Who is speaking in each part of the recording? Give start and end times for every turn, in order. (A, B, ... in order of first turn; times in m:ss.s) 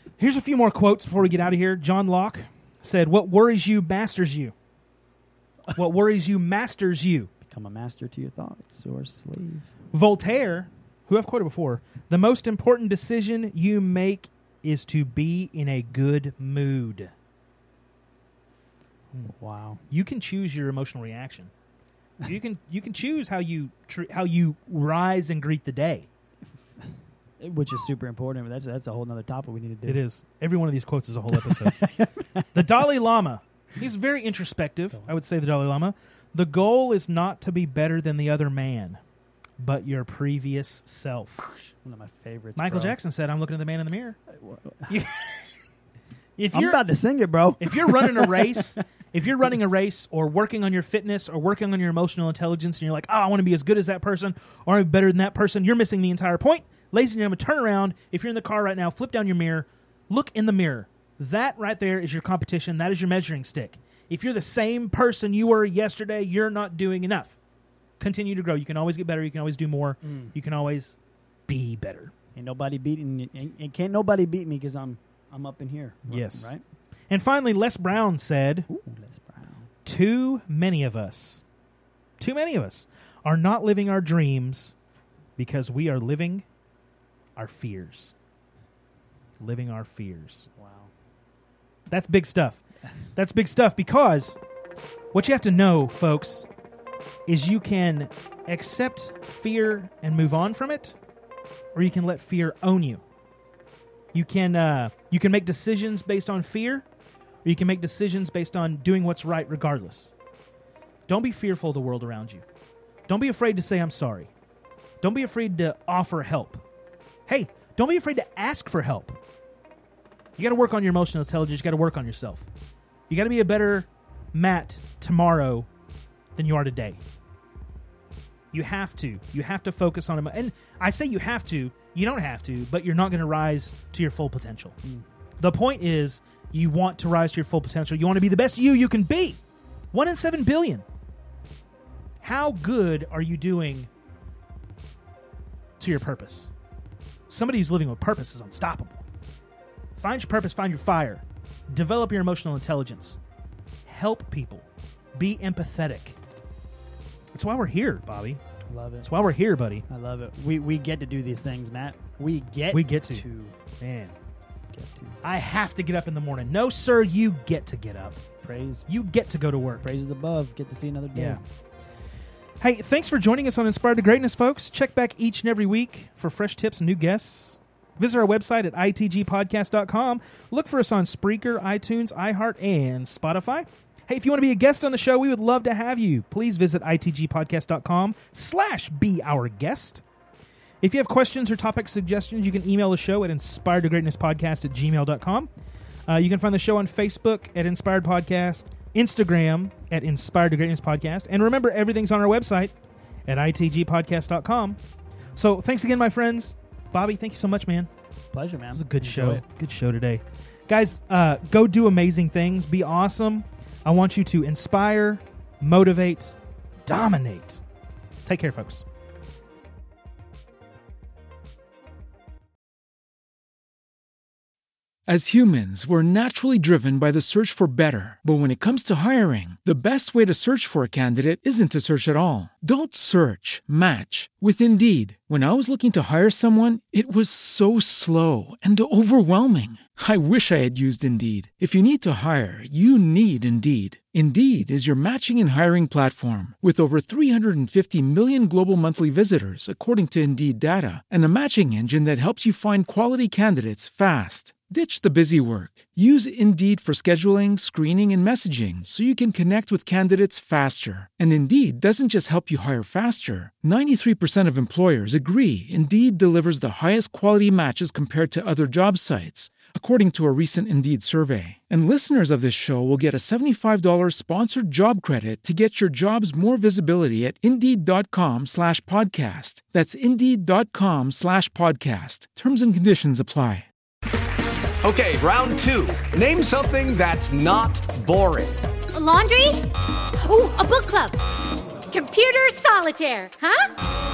0:00.2-0:04.5 A
0:05.7-0:07.3 A
0:07.4-0:09.7 B
0:09.9-0:17.1 A
0:19.2-0:19.8 B
0:19.9-0:21.5 A
0:22.2-0:26.1 A
0:26.8-0:30.0 B
0:29.9-0:31.8 A
0:31.3-0:32.7 B
0:32.5-0:39.0 A
0:39.6-0:41.5 A
0:41.7-0:43.0 B
0:42.6-0:44.2 A
0:44.4-0:45.1 B
0:44.9-0:45.4 A
0:46.4-0:46.8 A
0:46.5-0:48.8 B
0:47.6-1:07.4 A
1:08.0-1:11.0 A
1:10.0-1:10.3 B
1:11.5-1:12.1 A
1:12.4-1:16.6 B
1:16.1-1:16.5 A
1:17.1-1:18.7 A
1:18.7-1:19.7 B
1:19.8-1:21.4 A
1:22.2-1:24.8 A
1:25.4-1:26.4 A
1:27.4-1:28.1 A
1:29.4-1:30.5 A
1:30.6-1:30.9 B
1:31.9-1:34.4 A
1:35.1-1:36.5 A
1:37.3-1:41.0 A
1:41.7-1:43.0 A
1:44.1-1:46.8 A
1:47.4-1:50.1 A
1:51.1-1:52.4 A
1:53.1-1:54.3 A
1:55.0-1:56.6 A
1:57.3-1:59.2 A
2:00.4-2:02.5 A
2:03.1-2:05.7 A
2:06.4-2:07.0 A
2:08.5-2:14.8 A
2:15.4-2:19.4 A
2:19.9-2:20.8 A
2:22.2-2:23.9 A
2:25.8-2:26.5 A
2:27.3-2:29.0 A
2:30.0-2:33.2 A
2:33.9-2:34.6 A
2:35.2-2:36.2 A
2:37.3-2:38.4 A
2:38.7-2:39.1 B
2:39.0-2:39.8 A
2:39.9-2:43.6 B
2:42.7-2:43.2 A
2:43.8-2:44.1 A
2:44.7-2:45.2 B
2:45.2-2:48.3 A
2:48.4-2:48.8 B
2:48.9-2:49.9 A
2:49.8-2:51.4 B
2:51.1-2:51.4 A
2:52.6-3:10.0 A
3:10.8-3:15.5 A
3:16.1-3:22.7 A
3:23.3-3:24.8 A
3:25.4-3:27.9 A
3:28.3-3:29.4 B
3:28.7-3:37.6 A
3:38.3-3:38.8 A
3:45.1-4:43.7 C
4:44.8-4:48.7 D
4:48.9-4:49.7 E
4:50.2-4:51.2 E
4:51.9-4:53.7 E